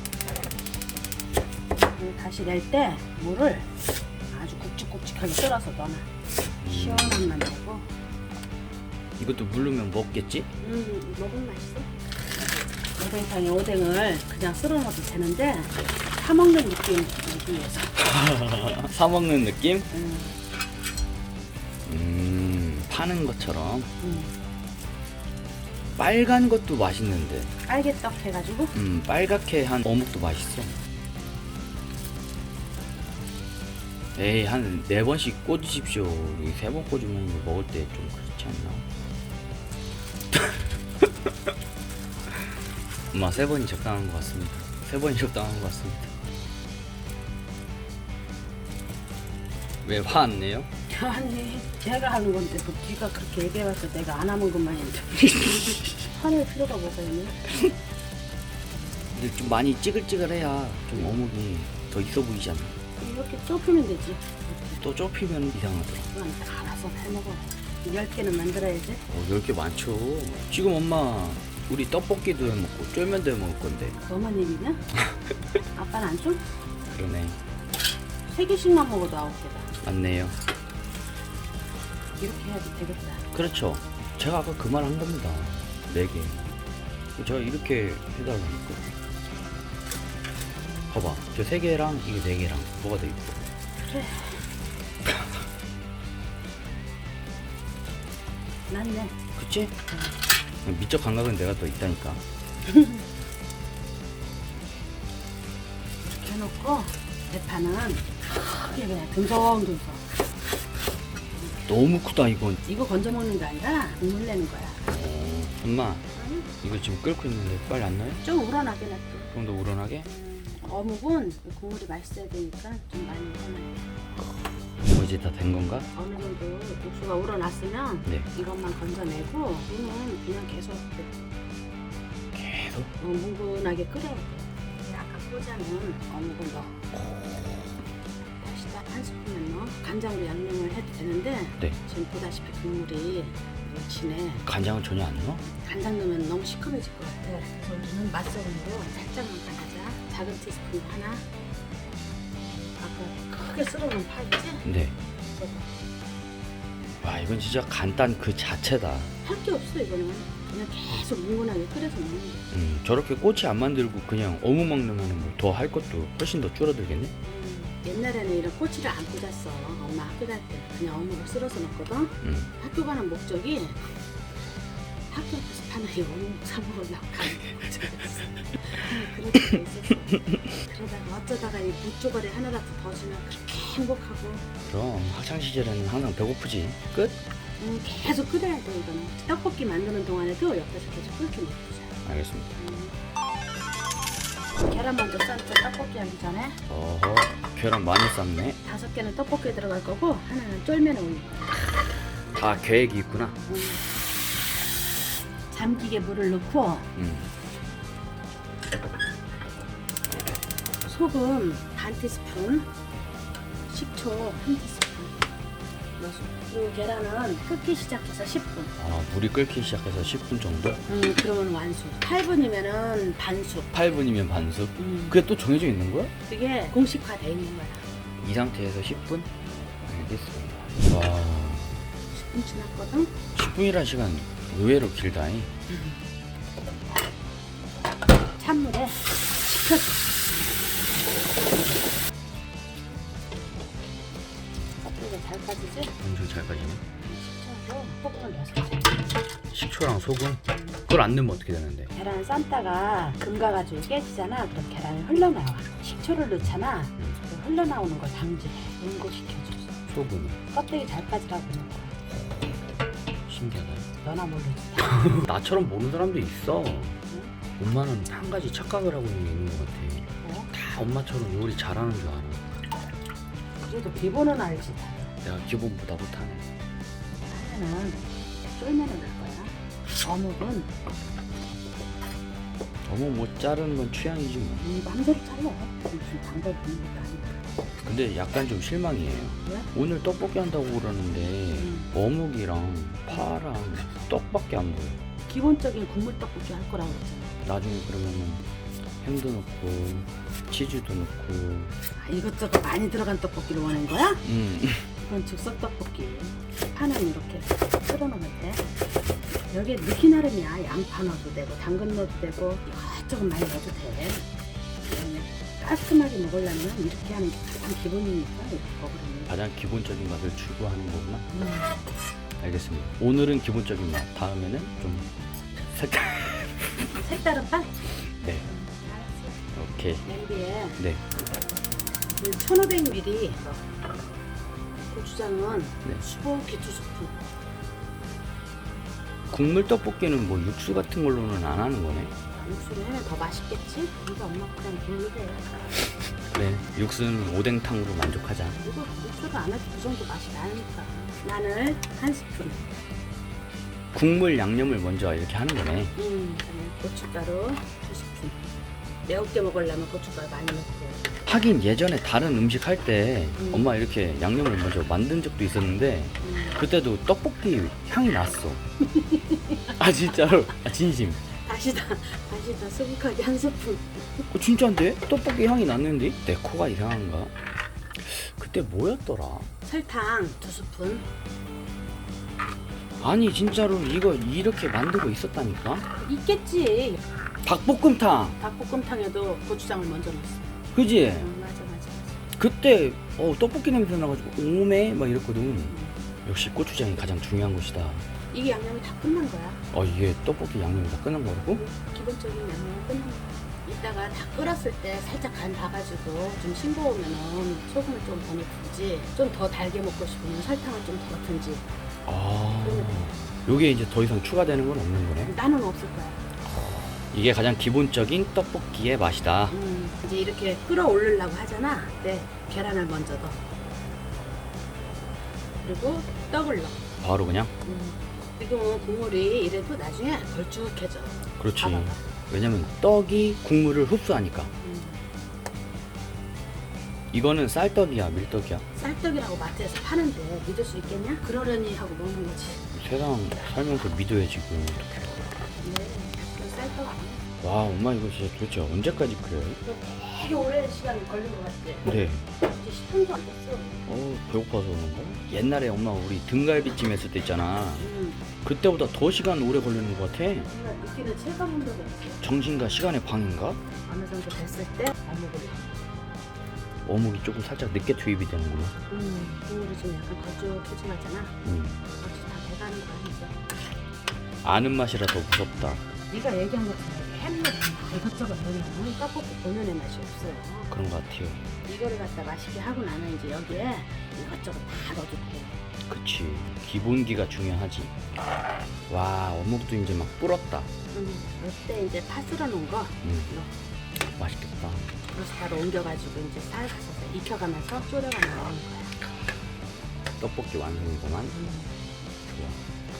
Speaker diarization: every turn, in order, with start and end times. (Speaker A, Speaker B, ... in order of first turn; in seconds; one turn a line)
Speaker A: 1.9-3.7
Speaker A: 4.3-6.1
Speaker B: 6.6-7.2
Speaker A: 6.7-7.9
Speaker B: 9.2-10.5
Speaker A: 10.6-11.9
Speaker A: 13.0-17.9
Speaker B: 18.0-19.9
Speaker A: 19.9-20.4
Speaker B: 21.9-23.9
Speaker A: 24.0-24.3
Speaker B: 26.0-27.5
Speaker A: 27.6-28.7
Speaker B: 28.7-30.8
Speaker B: 34.1-38.9
Speaker B: 40.3-41.3
Speaker B: 43.1-46.1
Speaker B: 49.8-50.7
Speaker A: 50.9-57.5
Speaker B: 59.1-62.7
Speaker A: 63.0-64.8
Speaker B: 64.8-66.1
Speaker A: 66.1-69.0
Speaker B: 69.1-74.0
Speaker A: 74.0-74.8
Speaker A: 75.7-76.4
Speaker B: 76.9-77.4
Speaker A: 78.3-79.7
Speaker B: 79.8-80.3
Speaker A: 82.2-83.2
Speaker B: 83.3-86.5
Speaker B: 87.2-89.0
Speaker B: 90.9-93.4
Speaker A: 93.8-94.5
Speaker A: 98.7-99.2
Speaker B: 99.3-99.7
Speaker B: 100.6-102.2
Speaker A: 102.7-103.0
Speaker A: 106.0-110.0
Speaker B: 111.7-112.6
Speaker A: 112.6-114.8
Speaker B: 114.8-116.0
Speaker A: 116.1-116.5
Speaker B: 116.6-118.2
Speaker A: 118.2-119.3
Speaker B: 119.3-120.1
Speaker A: 120.0-123.8
Speaker B: 124.8-125.9
Speaker A: 125.9-131.1
Speaker B: 132.3-132.9
Speaker A: 133.0-136.9
Speaker A: 138.4-144.4
Speaker B: 144.4-145.4
Speaker A: 145.4-151.2
Speaker A: 152.4-154.7
Speaker B: 154.6-155.0
Speaker A: 155.2-155.7
Speaker B: 157.0-159.1
Speaker A: 159.2-162.4
Speaker B: 162.5-167.1
Speaker A: 167.2-173.9
Speaker B: 172.2-172.5
Speaker A: 175.1-184.4
Speaker B: 184.6-187.2
Speaker A: 187.6-191.9
Speaker B: 192.0-192.6
Speaker A: 192.6-192.9
Speaker A: 194.6-196.6
Speaker B: 196.7-198.6
Speaker A: 198.6-201.7
Speaker B: 202.3-203.4
Speaker A: 203.5-203.8
Speaker A: 205.5-206.9
Speaker B: 206.9-207.3
Speaker A: 210.8-212.7
Speaker A: 213.7-215.1
Speaker A: 216.0-218.7
Speaker B: 218.8-220.8
Speaker A: 220.9-223.7
Speaker B: 223.7-226.1
Speaker A: 224.8-225.2
Speaker A: 226.3-227.8
Speaker B: 228.2-229.3
Speaker B: 229.8-231.8
Speaker A: 232.1-233.2
Speaker B: 233.3-235.5
Speaker A: 235.7-236.0
Speaker A: 238.4-240.2
Speaker A: 244.8-245.9
Speaker B: 246.0-246.8
Speaker A: 247.0-249.2
Speaker B: 249.5-251.9
Speaker A: 250.5-250.8
Speaker A: 251.9-259.7
Speaker B: 259.9-260.4
Speaker A: 260.5-261.9
Speaker B: 263.3-263.9
Speaker A: 264.0-265.3
Speaker B: 265.0-267.0
Speaker A: 267.1-267.3
Speaker B: 267.6-272.4
Speaker A: 270.2-270.5
Speaker A: 273.6-275.1
Speaker B: 275.2-276.4
Speaker A: 277.3-280.7
Speaker B: 282.8-284.7
Speaker A: 284.6-287.4
Speaker B: 287.8-295.0
Speaker A: 291.6-291.9
Speaker A: 295.3-297.4
Speaker B: 297.4-298.4
Speaker B: 299.0-301.7
Speaker A: 302.0-304.2
Speaker B: 304.2-304.9
Speaker A: 305.0-308.6
Speaker A: 309.5-314.2
Speaker A: 314.8-319.3
Speaker B: 319.3-321.2
Speaker A: 321.3-321.8
Speaker B: 322.4-325.1
Speaker B: 325.6-326.9
Speaker A: 326.9-327.8
Speaker B: 328.2-328.4
Speaker A: 328.4-329.4
Speaker B: 329.5-330.0
Speaker A: 330.0-330.8
Speaker A: 332.2-333.6
Speaker A: 334.8-337.1
Speaker B: 339.3-342.1
Speaker A: 342.4-345.4
Speaker B: 346.3-348.6
Speaker A: 348.6-352.6
Speaker B: 353.9-355.9
Speaker A: 355.9-358.4
Speaker A: 359.1-361.0
Speaker B: 361.2-368.6
Speaker A: 363.4-363.7
Speaker A: 366.2-366.6
Speaker A: 368.9-369.7
Speaker B: 369.8-371.2
Speaker A: 371.3-374.2
Speaker B: 374.3-377.3
Speaker B: 378.0-379.5
Speaker A: 379.6-381.0
Speaker B: 383.0-385.9
Speaker A: 385.9-387.0
Speaker B: 387.4-388.4
Speaker A: 388.4-390.5
Speaker B: 390.7-391.3
Speaker A: 391.2-392.2
Speaker B: 392.4-398.1
Speaker A: 395.7-396.0
Speaker A: 398.3-399.6
Speaker B: 399.7-401.6
Speaker A: 401.5-411.6
Speaker B: 412.1-415.3
Speaker A: 412.6-413.1
Speaker A: 415.2-416.2
Speaker B: 417.0-419.6
Speaker A: 419.5-423.4
Speaker A: 425.6-426.9
Speaker B: 427.0-427.5
Speaker A: 427.6-432.0
Speaker B: 431.4-434.5
Speaker A: 434.6-435.0
Speaker B: 437.1-438.6
Speaker A: 438.7-442.6
Speaker B: 442.7-445.1
Speaker A: 445.6-447.2
Speaker B: 447.4-449.6
Speaker A: 449.6-453.8
Speaker B: 451.8-452.2
Speaker B: 453.9-457.9
Speaker A: 457.8-458.2
Speaker B: 458.4-460.5
Speaker A: 460.4-462.2
Speaker B: 462.2-463.6
Speaker A: 463.9-465.6
Speaker B: 466.9-468.7
Speaker A: 468.9-471.3
Speaker B: 471.4-471.8
Speaker A: 472.0-473.3
Speaker B: 474.4-475.9
Speaker A: 476.1-480.7
Speaker B: 480.7-481.5
Speaker A: 481.7-485.6
Speaker B: 485.9-487.9
Speaker B: 488.9-490.7
Speaker A: 490.9-493.5
Speaker B: 493.0-493.3
Speaker B: 494.2-494.9
Speaker A: 495.1-498.9
Speaker B: 500.2-501.3
Speaker A: 501.3-501.8
Speaker B: 502.2-502.6